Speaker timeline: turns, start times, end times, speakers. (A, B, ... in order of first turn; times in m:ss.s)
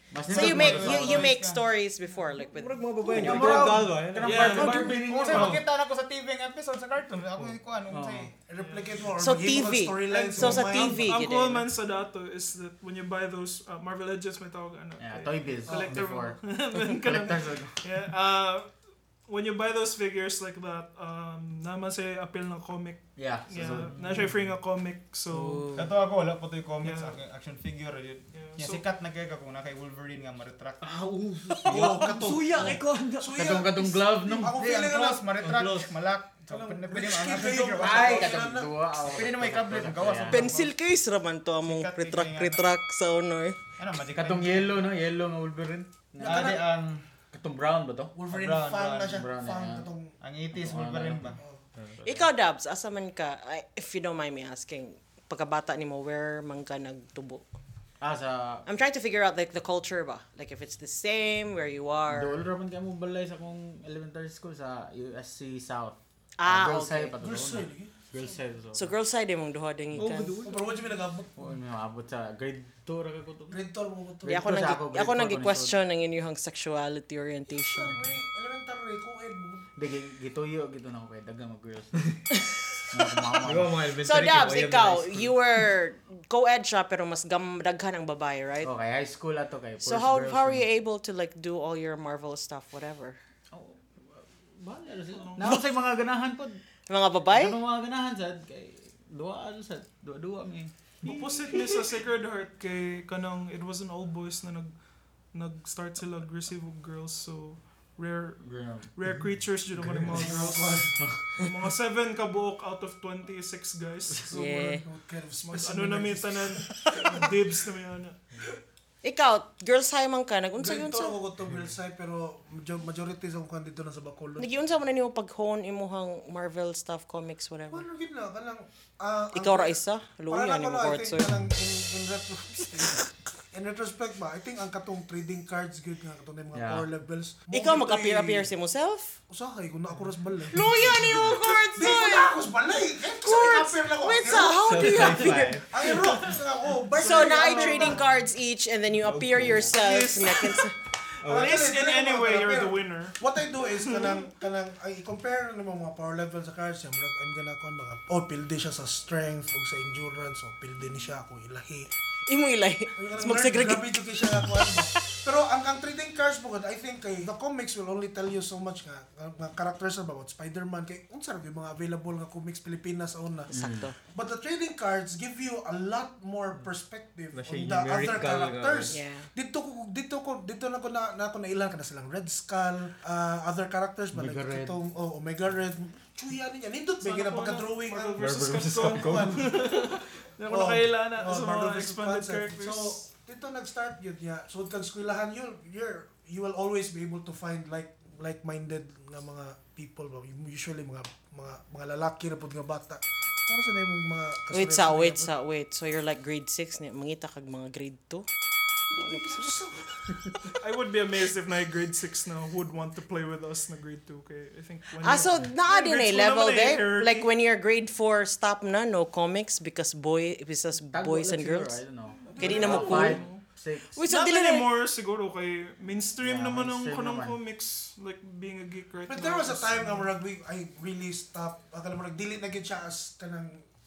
0:00.1-0:01.4 A
0:00.2-0:01.6 B
0:00.3-0:03.5 C
0:02.3-0:05.6 D
0:03.2-0:08.3 B
0:03.2-0:05.6 A
0:04.2-0:05.0 E
0:07.9-0:08.3 A
0:08.5-0:11.2 F
0:08.6-0:09.0 E
0:09.2-0:11.7 C
0:10.1-0:18.7 E
0:15.0-0:17.8 A
0:15.7-0:16.0 F
0:19.3-0:25.7 E
0:23.2-0:24.3 A
0:24.0-0:24.3 D
0:25.3-0:25.9 A
0:25.8-0:31.0 B
0:26.8-0:27.2 E
0:28.3-0:28.8 E
0:30.8-0:33.5 D
0:31.6-0:35.4 F
0:32.6-0:34.6 A
0:34.5-0:40.7 B
0:35.4-0:35.9 D
0:36.5-0:38.9 F
0:37.8-0:40.5 A
0:40.3-0:43.6 C
0:41.6-0:42.7 B
0:43.8-0:44.8 B
0:44.1-0:46.6 A
0:46.2-0:47.0 B
0:46.2-0:46.7 F
0:47.3-0:48.2 A
0:48.2-0:50.1 F
0:48.3-0:49.2 B
0:49.1-0:49.9 A
0:50.2-0:51.4 B
0:50.5-0:51.4 A
0:52.0-0:52.3 A
0:52.0-0:57.4 C
0:58.0-0:58.6 A
0:58.7-1:02.4 C
1:02.1-1:08.9 A
1:06.4-1:07.2 C
1:07.2-1:08.4 F
1:08.7-1:10.3 C
1:09.9-1:10.7 D
1:10.4-1:11.3 F
1:11.4-1:13.7 A
1:13.5-1:14.5 F
1:14.2-1:15.8 A
1:14.3-1:18.0 C
1:17.5-1:19.7 F
1:19.8-1:22.2 A
1:22.9-1:23.8 A
1:23.4-1:25.4 D
1:24.0-1:28.7 C
1:28.6-1:30.7 A
1:29.8-1:33.2 C
1:33.5-1:36.6 A
1:35.2-1:35.5 E
1:36.9-1:37.6 C
1:37.3-1:40.7 A
1:41.0-1:41.6 D
1:41.0-1:44.7 E
1:45.2-1:54.8 E
1:48.4-1:48.9 A
1:49.7-1:50.5 D
1:50.2-1:51.0 F
1:54.3-1:54.8 C
1:54.8-1:57.3 F
1:55.4-1:58.2 E
1:59.0-2:01.2 C
2:00.6-2:04.5 F
2:01.5-2:01.7 D
2:04.4-2:07.8 C
2:07.7-2:18.5 F
2:09.3-2:11.3 C
2:16.5-2:16.9 A
2:17.5-2:19.2 C
2:19.3-2:20.7 F
2:20.5-2:22.4 C
2:21.7-2:28.1 F
2:23.2-2:25.6 C
2:24.6-2:26.4 D
2:27.0-2:30.7 C
2:27.1-2:28.0 E
2:28.9-2:29.8 D
2:29.7-2:30.7 E
2:31.2-2:31.8 D
2:31.2-2:34.3 E
2:31.3-2:41.9 F
2:42.3-2:45.0 C
2:43.0-2:53.5 F
2:53.5-2:54.0 C
2:53.5-2:53.9 A
2:54.1-3:09.9 F
2:57.3-2:59.0 D
2:58.9-2:59.3 C
3:04.1-3:04.8 A
3:07.0-3:13.0 E
3:08.2-3:09.6 D
3:10.5-3:25.3 F
3:24.5-3:28.3 C
3:28.9-3:30.4 F
3:29.0-3:29.6 C
3:30.6-3:37.3 E
3:35.0-3:41.8 C
3:40.9-3:43.9 A
3:42.3-3:43.2 F
3:42.3-3:43.4 E
3:42.4-3:43.3 C
3:43.9-3:44.7 C
3:44.1-3:50.1 E
3:46.2-3:47.4 A
3:49.1-3:53.6 F